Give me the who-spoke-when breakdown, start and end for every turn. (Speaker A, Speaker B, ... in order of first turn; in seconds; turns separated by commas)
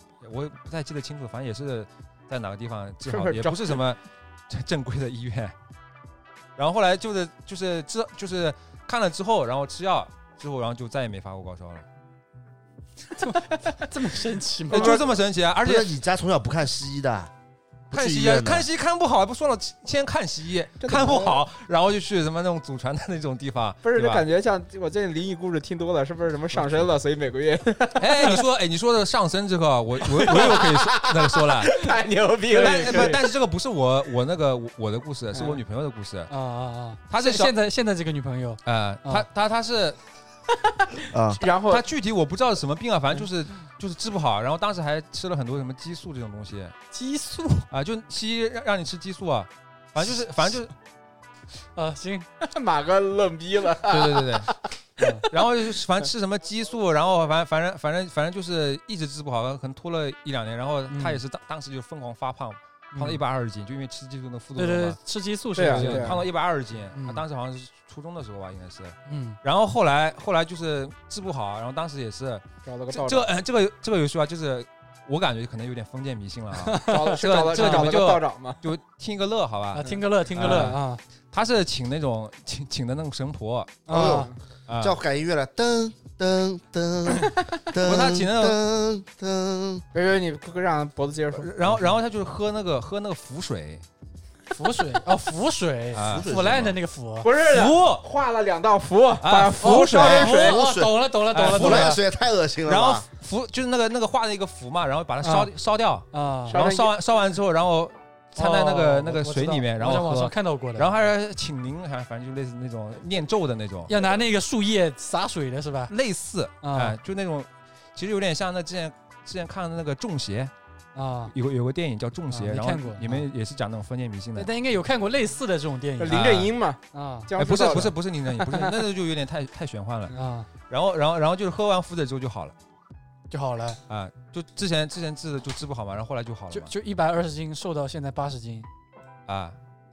Speaker A: 0.2-5.5, Speaker B: 3.0-3.8, Speaker A: 6.6-11.8, Speaker C: 13.2-15.0, Speaker A: 14.7-15.9, Speaker B: 14.7-15.0, Speaker D: 15.6-17.3, Speaker A: 17.9-24.2, Speaker D: 17.9-18.6, Speaker B: 20.8-21.4, Speaker B: 23.8-28.4, Speaker A: 28.0-31.9, Speaker B: 30.0-33.3, Speaker A: 32.5-36.3, Speaker C: 32.6-33.2, Speaker B: 35.3-35.6, Speaker C: 36.3-39.2, Speaker A: 37.1-37.5, Speaker A: 38.6-40.0, Speaker D: 41.1-41.4, Speaker B: 41.4-41.8, Speaker A: 41.7-46.7, Speaker C: 46.9-47.7, Speaker A: 47.7-50.7, Speaker C: 51.7-52.3, Speaker B: 52.4-55.4, Speaker A: 53.8-54.5, Speaker C: 55.0-55.2, Speaker A: 55.3-65.0, Speaker C: 60.9-61.2, Speaker C: 62.9-63.2, Speaker C: 64.5-66.2, Speaker B: 65.5-66.2, Speaker A: 65.6-80.8, Speaker C: 66.9-67.2, Speaker C: 69.1-69.4, Speaker B: 72.6-73.3, Speaker C: 76.6-78.0, Speaker B: 76.8-78.6, Speaker C: 79.7-81.0, Speaker B: 79.8-80.7, Speaker A: 81.3-83.9, Speaker C: 83.8-84.3, Speaker D: 83.9-89.8, Speaker B: 83.9-84.3, Speaker A: 84.7-85.0, Speaker A: 87.8-88.6, Speaker B: 89.9-91.5, Speaker A: 91.3-93.8, Speaker C: 94.5-97.3, Speaker A: 95.9-96.3, Speaker D: 96.0-96.8, Speaker B: 97.2-100.6, Speaker A: 97.5-98.0, Speaker A: 99.2-100.5, Speaker C: 99.6-102.0, Speaker D: 100.3-103.0, Speaker A: 101.3-102.0, Speaker A: 102.6-113.9, Speaker C: 105.2-105.5, Speaker C: 106.1-106.6, Speaker B: 106.5-106.9, Speaker C: 108.3-110.9, Speaker C: 113.9-115.9, Speaker A: 115.9-120.5, Speaker C: 116.6-117.0, Speaker C: 120.9-121.3, Speaker A: 121.3-124.5, Speaker C: 122.3-123.2, Speaker C: 124.3-126.4, Speaker B: 126.0-128.7, Speaker A: 126.1-126.5, Speaker C: 126.9-127.3, Speaker A: 127.4-130.1, Speaker C: 130.1-130.5, Speaker A: 130.7-132.5, Speaker C: 133.3-133.8, Speaker A: 133.9-136.7, Speaker C: 136.5-138.7, Speaker A: 139.3-139.6